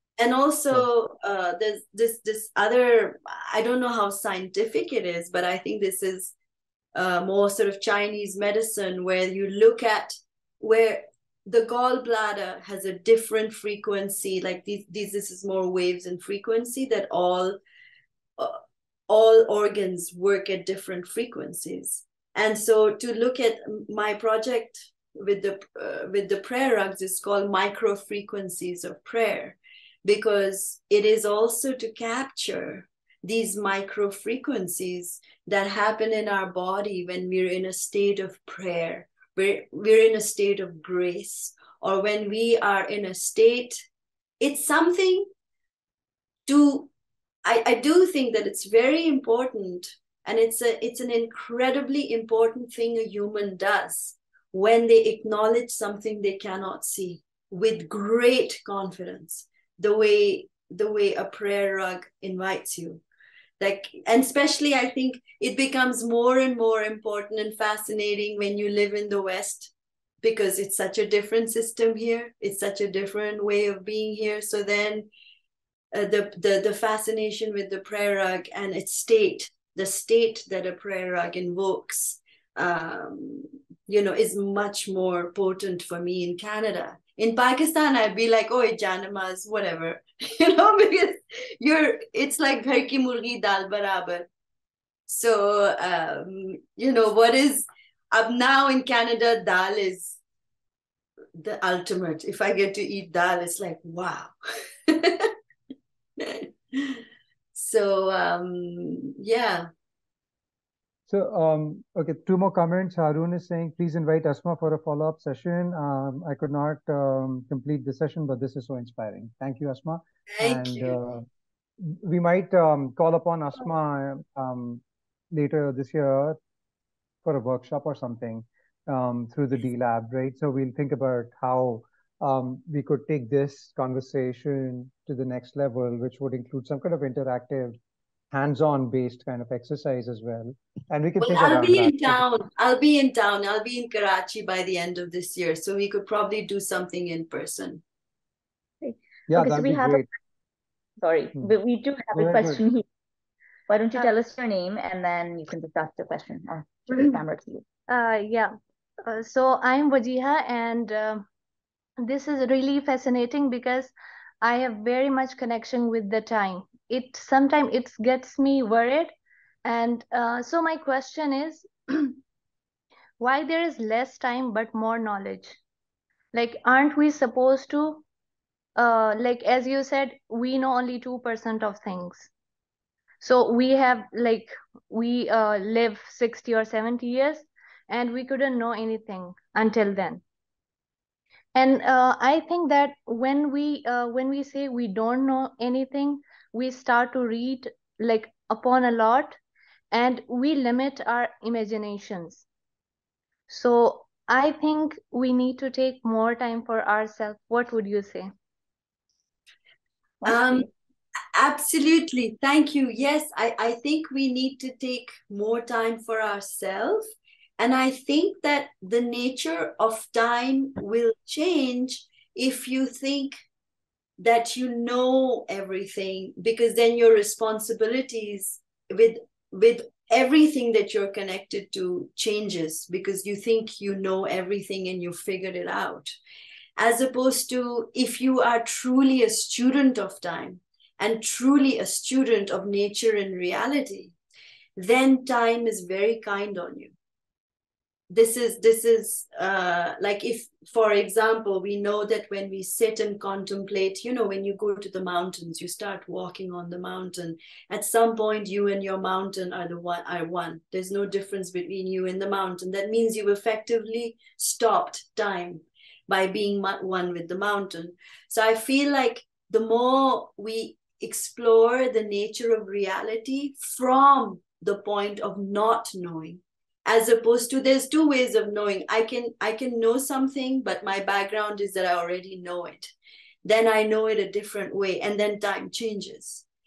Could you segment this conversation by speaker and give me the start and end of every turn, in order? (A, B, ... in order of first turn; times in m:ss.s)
0:00.2-0:06.3 A
0:06.9-0:17.6 A
0:18.4-0:43.8 A
0:44.4-0:45.3 A
0:46.5-0:46.9 A
0:47.4-1:03.0 A
1:03.6-1:15.1 A
1:15.9-1:34.3 A
1:35.1-1:40.2 A
1:41.4-1:44.3 A
1:44.9-1:45.3 A
1:46.2-1:47.0 A
1:47.6-1:49.7 A
1:51.1-2:01.3 B
2:00.3-2:01.0 A
2:01.8-2:06.4 B
2:07.2-2:17.8 B
2:18.3-2:22.2 B
2:21.2-2:27.8 A
2:28.8-2:30.1 C
2:29.3-2:30.1 B
2:31.0-2:32.8 C
2:32.1-2:32.6 B
2:33.7-2:37.6 C
2:37.9-2:38.5 D
2:39.0-2:41.2 D
2:42.0-2:49.1 D
2:49.6-2:52.2 D
2:53.2-2:55.6 D
2:56.3-2:58.0 D
2:58.8-3:02.3 D
3:03.2-3:10.2 D
3:11.6-3:19.4 D
3:19.9-3:22.5 D
3:23.5-3:28.3 D
3:30.2-3:30.7 C
3:30.2-3:30.7 A
3:31.3-3:43.4 A
3:44.2-3:56.2 A
3:56.8-4:04.2 A
4:04.8-4:06.9 A
4:08.1-4:42.9 A
4:43.4-4:46.4 A